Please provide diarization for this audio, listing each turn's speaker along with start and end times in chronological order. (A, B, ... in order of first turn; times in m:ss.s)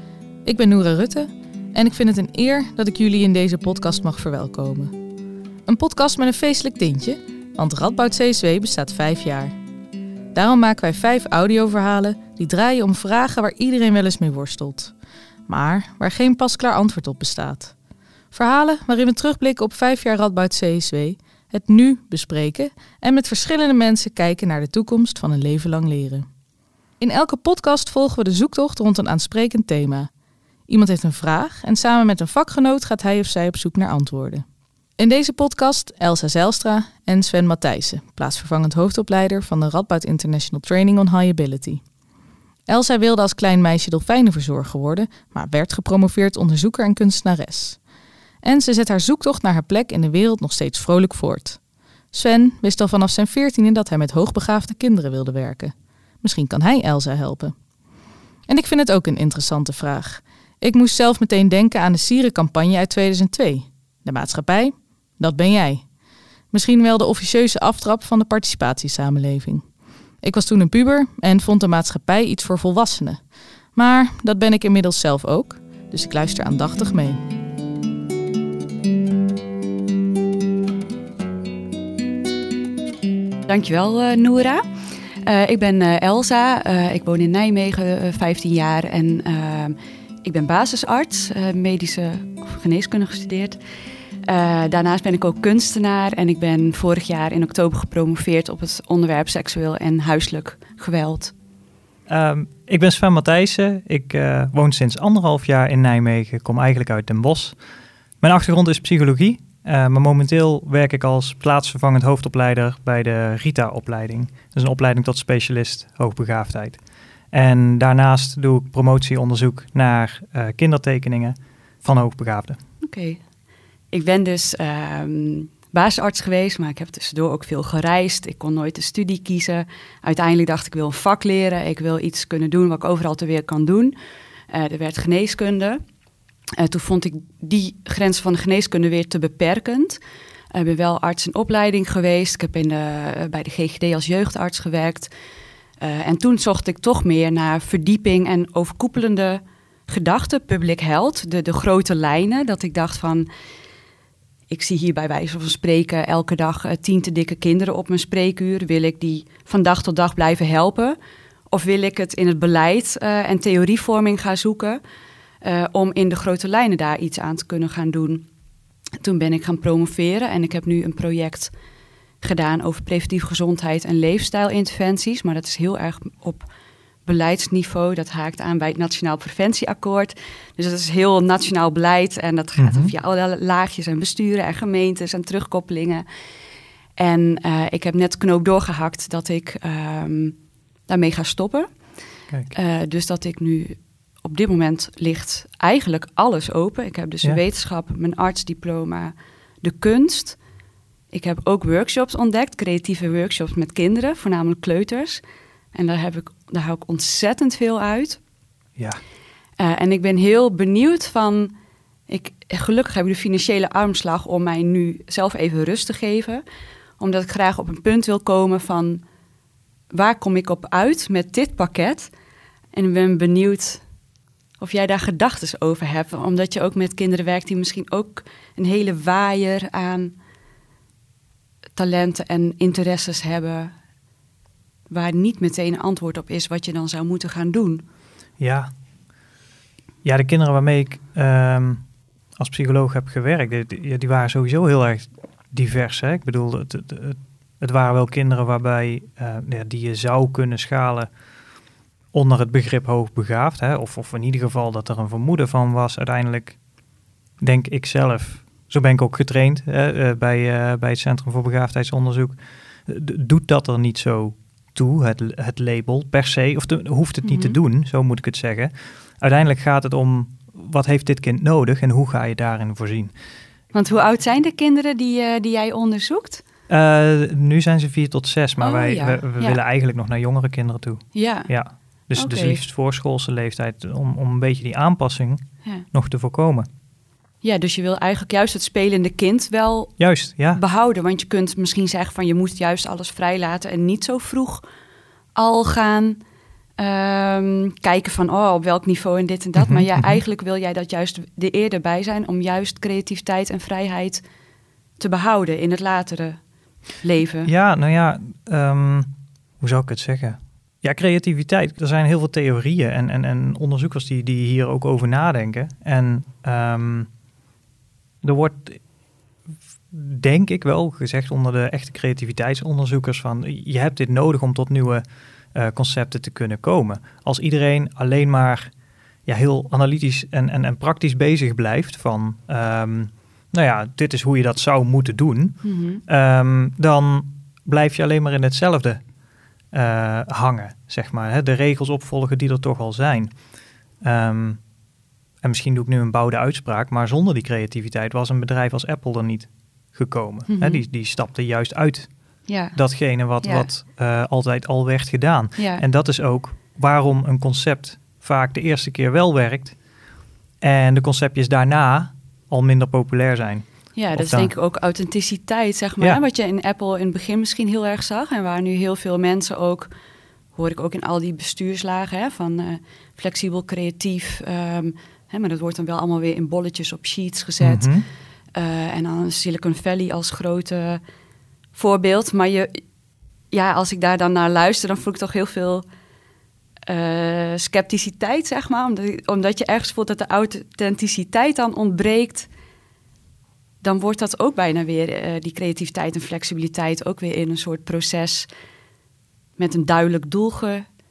0:00.4-0:04.9 A
0:05.7-0:09.5 A
0:10.3-0:14.9 A
0:15.5-0:17.7 A
0:18.3-0:26.3 A
0:27.0-0:30.1 A
0:30.7-0:34.4 A
0:35.0-0:41.8 A
0:42.7-0:47.8 A
0:48.4-0:51.6 A
0:52.1-0:57.5 A
0:58.5-1:05.8 A
1:06.5-1:09.6 A
1:10.2-1:13.2 A
1:13.7-1:17.2 A
1:23.5-1:24.6 B
1:25.2-1:33.6 B
1:34.3-1:41.3 B
1:42.1-1:47.6 C
1:48.2-1:56.8 C
1:57.3-2:02.6 C
2:02.8-2:03.2 B
2:03.9-2:13.9 B
2:14.5-2:15.8 B
2:16.6-2:20.0 B
2:20.5-2:25.1 B
2:25.8-2:33.3 B
2:34.5-2:41.0 B
2:41.5-2:44.8 B
2:45.4-2:48.2 B
2:49.0-2:51.5 B
2:52.2-2:56.5 B
2:57.0-3:06.0 B
3:02.6-3:02.9 C
3:07.0-3:11.7 B
3:12.5-3:20.4 B
3:21.1-3:25.2 B
3:25.7-3:28.2 B
3:29.6-3:31.5 B
3:32.1-3:36.4 B
3:37.0-3:39.0 B
3:39.9-3:42.1 B
3:42.7-3:43.8 B
3:44.6-3:50.1 B
3:51.8-3:53.8 B
3:54.9-3:57.8 B
3:58.4-3:58.7 C
4:00.0-4:01.8 C
4:02.4-4:11.1 C
4:12.1-4:16.6 C
4:17.4-4:33.1 C
4:27.2-4:27.6 B
4:33.7-4:36.4 B
4:36.7-4:46.7 C
4:38.6-4:39.6 B
4:41.1-4:41.5 B
4:42.2-4:42.6 B
4:47.4-4:50.0 B
4:50.0-4:50.6 C
4:50.5-4:54.6 B
4:55.3-4:56.2 B
4:56.8-5:04.2 B
4:59.6-5:00.2 C
5:05.0-5:06.4 B
5:07.0-5:07.5 B
5:07.4-5:17.1 C
5:18.2-5:18.8 C
5:19.9-5:25.0 C
5:25.5-5:28.7 C
5:29.2-5:39.0 C
5:35.6-5:36.0 B
5:39.7-5:43.3 C
5:44.0-5:44.6 C
5:45.4-5:52.1 C
5:50.5-5:50.8 B
5:52.5-5:52.8 B
5:52.7-5:59.8 C
5:53.4-5:53.7 B
5:55.6-5:55.8 B
6:00.6-6:04.5 C
6:04.0-6:09.9 B
6:10.5-6:17.9 B
6:17.6-6:18.0 C
6:18.5-6:21.0 B
6:21.7-6:22.8 B
6:23.5-6:25.8 B
6:26.9-6:32.5 B
6:33.8-6:38.5 B
6:39.6-6:40.8 B